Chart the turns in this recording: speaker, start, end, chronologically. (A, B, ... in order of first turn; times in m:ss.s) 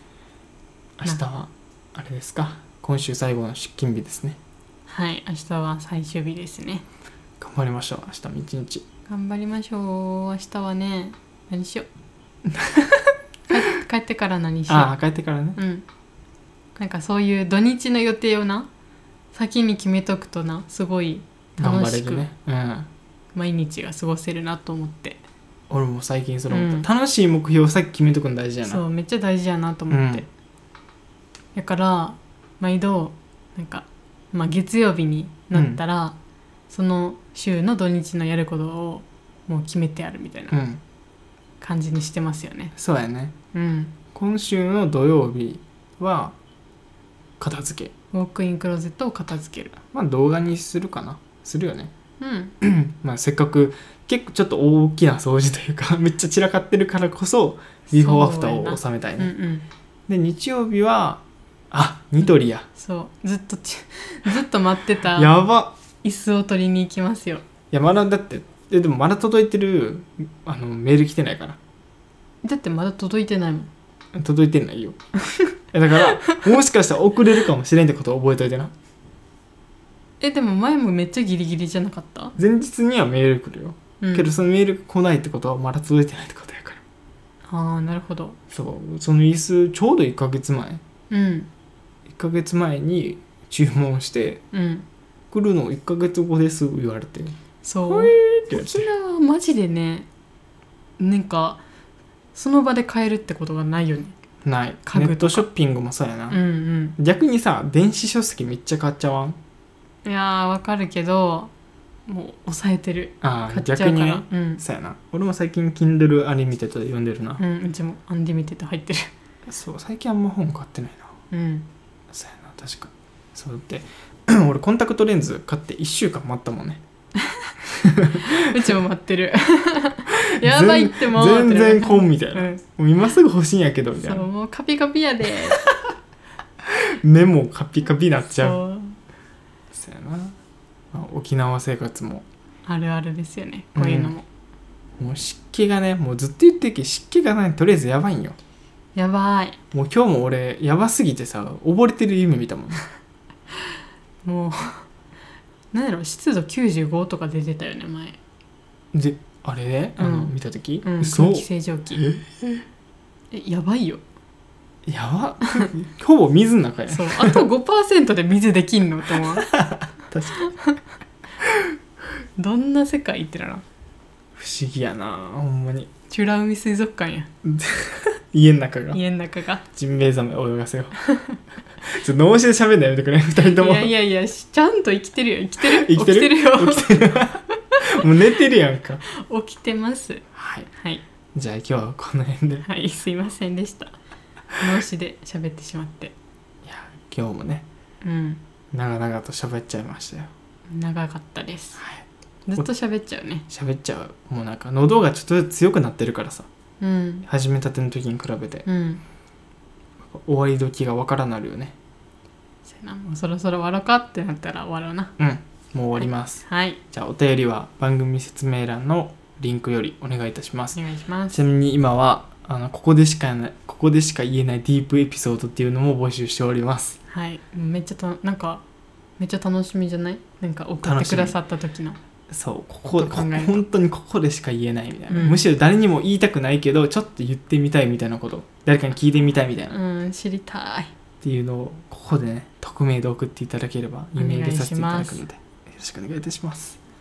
0:01.0-0:04.4 A
0:04.9-0:06.8 B
0:07.4-0:08.8 A
0:09.1-0:11.9 B
0:12.5-0:13.1 A
0:13.5-0:14.9 B
0:14.7-0:15.6 A
0:15.6-0:15.8 B
0:16.8-0:18.7 B
0:19.3-0:22.2 B
0:21.6-0:22.9 A
0:23.3-0:25.2 B
0:25.7-0:28.8 A
0:26.5-0:26.9 B
0:28.6-0:30.3 B
0:29.9-0:30.2 A
0:31.5-0:36.2 B
0:35.5-0:35.8 A
0:36.7-0:40.6 B
0:40.5-0:40.8 A
0:41.6-0:42.7 B
0:42.8-0:43.3 A
0:43.5-0:44.0 B
0:44.1-0:46.3 A
0:47.4-0:47.9 A
0:48.1-0:49.7 B
0:49.9-0:51.9 A
0:52.2-0:52.5 B
0:52.6-0:59.3 A
0:57.9-0:59.6 B
1:00.1-1:02.7 A
1:02.8-1:05.3 B
1:05.1-1:05.7 A
1:06.0-1:07.4 B
1:07.7-1:11.6 A
1:12.4-1:13.7 B
1:14.1-1:15.0 A
1:15.7-1:18.7 A
1:20.2-1:22.4 B
1:22.4-1:26.8 A
1:24.0-1:24.3 B
1:27.5-1:28.4 B
1:28.5-1:30.8 A
1:31.1-1:31.5 B
1:32.1-1:34.4 A
1:34.5-1:34.8 B
1:35.3-1:37.3 A
1:37.6-1:40.1 B
1:37.9-1:38.9 A
1:41.0-1:41.6 B
1:42.3-1:44.1 B
1:44.4-1:46.4 A
1:44.8-1:45.5 B
1:46.3-1:47.0 B
1:47.0-1:49.4 A
1:50.0-1:51.5 B
1:52.1-1:54.6 B
1:53.2-1:57.4 A
1:57.4-1:59.1 B
1:59.5-2:01.1 A
2:01.3-2:01.7 B
2:02.1-2:06.8 A
2:07.2-2:07.5 B
2:07.6-2:08.5 A
2:08.1-2:12.6 B
2:10.1-2:14.2 A
2:14.0-2:15.9 B
2:16.6-2:18.6 A
2:18.4-2:19.0 B
2:19.7-2:20.3 A
2:20.9-2:22.2 A
2:22.6-2:24.2 B
2:23.7-2:24.1 A
2:25.0-2:28.4 A
2:28.9-2:29.6 B
2:29.7-2:32.8 A
2:33.5-2:34.9 B
2:35.7-2:38.2 B
2:38.9-2:42.6 A
2:40.0-2:42.0 B
2:43.3-2:44.0 B
2:44.8-2:47.4 A
2:46.9-2:49.5 B
2:49.3-2:50.5 A
2:50.4-2:50.8 B
2:52.4-2:53.6 B
2:54.4-2:55.9 A
2:56.1-2:57.3 B
2:57.4-2:59.0 A
2:58.9-2:59.6 B
2:59.7-3:01.0 A
3:01.0-3:01.4 B
3:01.8-3:03.9 A
3:03.4-3:08.1 B
3:05.6-3:09.0 A
3:09.1-3:10.2 B
3:10.3-3:10.7 A
3:10.7-3:11.0 B
3:11.3-3:12.6 A
3:12.6-3:13.9 B
3:14.6-3:16.1 B
3:16.6-3:17.6 A
3:18.0-3:18.4 B
3:18.7-3:20.3 A
3:20.7-3:21.8 B
3:21.8-3:22.0 A
3:22.5-3:23.4 B
3:23.5-3:26.5 A
3:26.8-3:27.2 B
3:27.2-3:28.7 A
3:28.6-3:29.0 B
3:30.0-3:31.7 A
3:32.6-3:35.1 B
3:35.2-3:47.0 A
3:36.4-3:36.8 B
3:40.7-3:41.4 B
3:47.1-3:48.6 B
3:49.2-3:52.0 B
3:50.8-3:51.4 A
3:52.3-3:59.8 A
3:53.0-3:53.6 B
3:55.1-3:55.4 B
3:59.7-4:00.9 B
4:01.2-4:06.8 A
4:04.2-4:05.2 B